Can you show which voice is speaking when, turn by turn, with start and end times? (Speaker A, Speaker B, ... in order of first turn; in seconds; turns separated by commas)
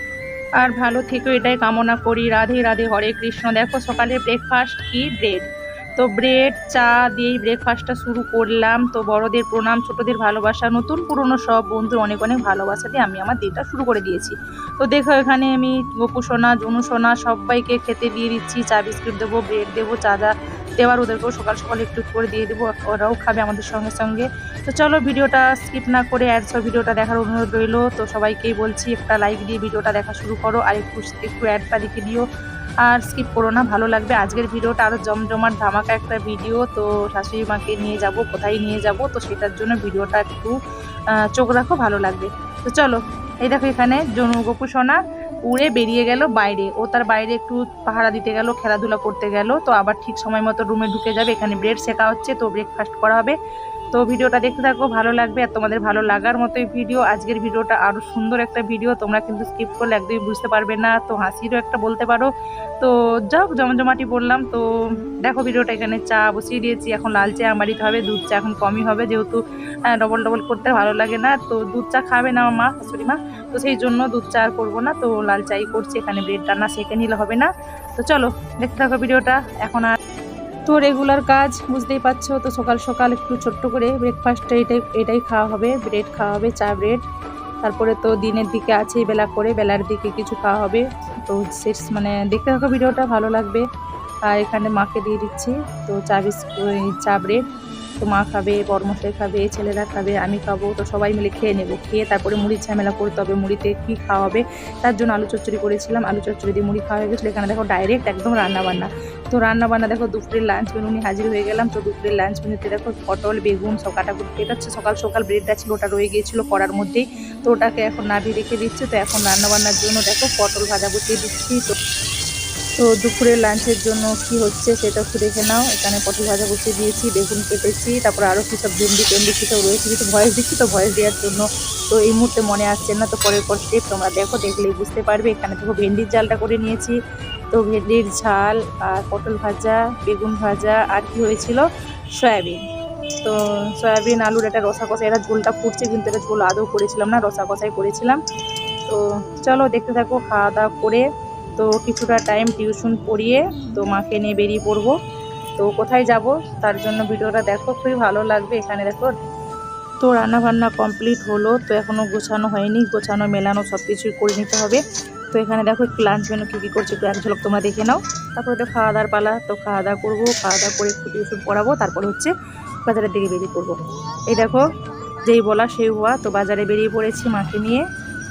Speaker A: 0.6-32.3, Speaker A: 32.8-40.6, Speaker A: 41.1-53.4, Speaker A: 53.9-62.3, Speaker A: 62.8-64.7, Speaker A: 65.2-79.9, Speaker A: 80.7-87.0, Speaker A: 87.6-93.6, Speaker A: 94.2-97.4, Speaker A: 98.0-121.7, Speaker A: 122.8-137.0, Speaker A: 137.5-141.6, Speaker A: 142.2-142.6, Speaker A: 143.2-148.2, Speaker A: 148.9-151.1, Speaker A: 151.6-154.9, Speaker A: 155.6-159.1, Speaker A: 160.0-164.8, Speaker A: 165.3-172.3, Speaker A: 172.8-177.9